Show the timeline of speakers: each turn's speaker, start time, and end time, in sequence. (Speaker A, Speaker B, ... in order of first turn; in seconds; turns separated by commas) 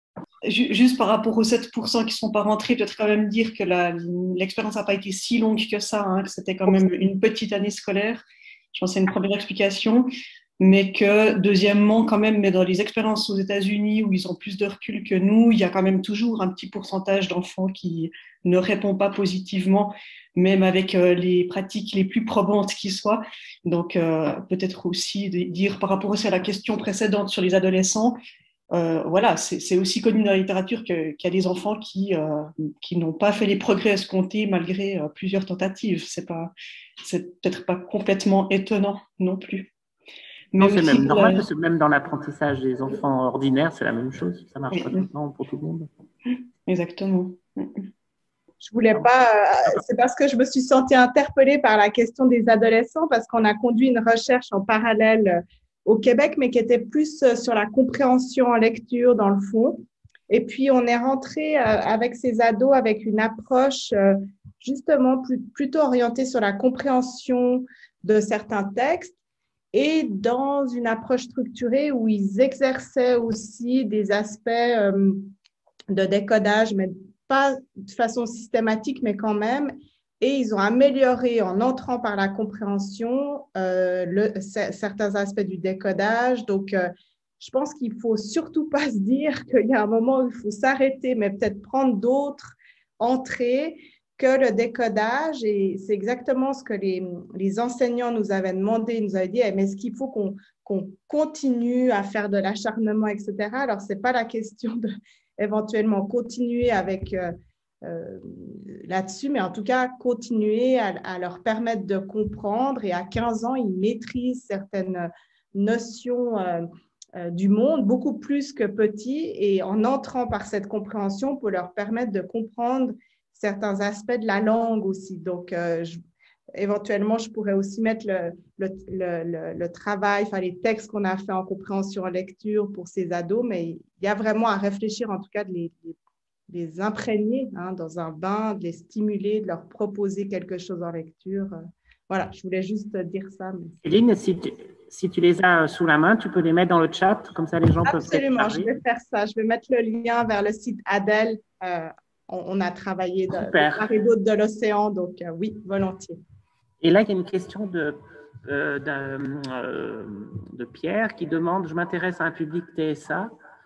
Speaker A: 0.4-10.1, Speaker A: 10.6-28.1, Speaker A: 28.7-39.7, Speaker A: 40.5-41.4, Speaker B: 40.6-45.9, Speaker A: 44.7-45.0, Speaker A: 46.6-47.9, Speaker C: 48.6-69.1, Speaker C: 69.7-75.3, Speaker C: 75.9-86.9, Speaker C: 87.4-104.9, Speaker C: 105.4-126.0, Speaker C: 126.5-136.0, Speaker C: 136.5-141.6, Speaker C: 142.1-143.8, Speaker B: 143.8-148.7, Speaker C: 147.8-156.2, Speaker B: 153.3-153.9, Speaker B: 156.8-163.3